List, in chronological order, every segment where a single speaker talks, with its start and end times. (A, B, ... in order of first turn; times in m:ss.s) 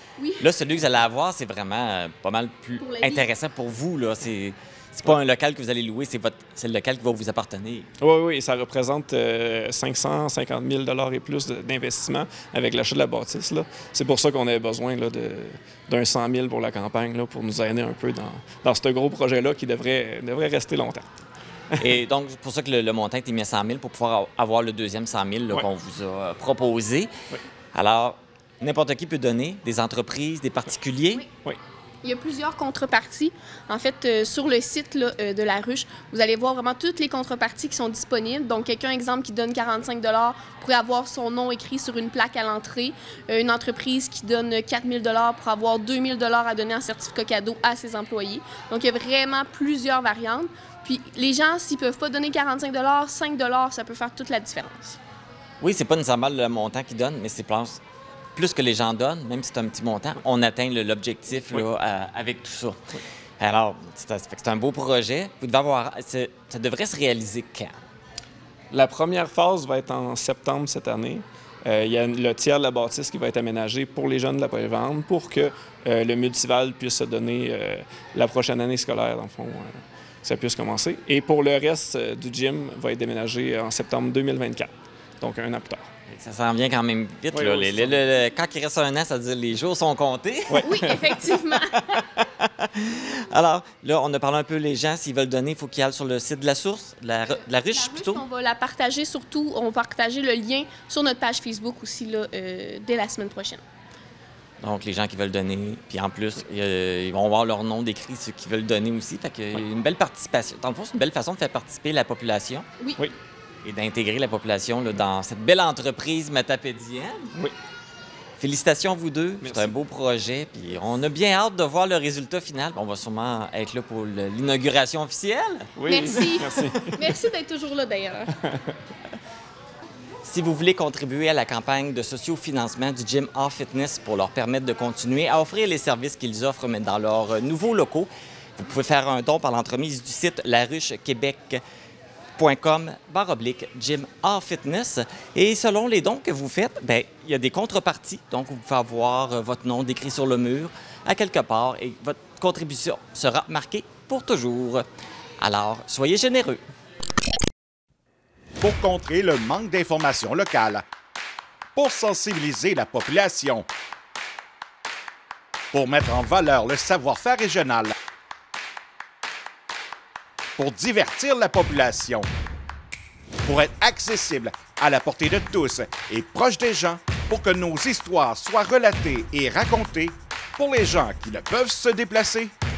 0:00.2-0:00.5 A
0:00.4-0:07.9 B
0:02.8-0:03.2 A
0:08.0-0:21.0 C
0:21.8-0:27.1 B
0:27.7-0:31.2 B
0:32.0-0:55.0 A
0:55.6-0:57.8 B
0:58.3-1:02.8 B
1:03.4-1:07.8 B
1:08.7-1:25.9 C
1:26.1-1:30.7 B
1:27.3-1:28.0 C
1:30.5-1:31.0 C
1:30.6-1:31.8 A
1:32.2-1:38.2 B
1:37.3-1:43.6 A
1:44.6-1:52.7 B
1:53.6-1:57.3 B
1:58.4-2:05.8 B
1:59.4-1:59.7 C
2:05.8-2:07.1 C
2:05.8-2:08.3 A
2:10.2-2:21.6 B
2:22.4-2:34.9 B
2:35.4-2:36.6 B
2:38.6-2:40.8 D
2:41.7-2:43.7 D
2:45.7-2:47.9 D
2:50.6-2:52.3 D
2:53.4-3:02.5 D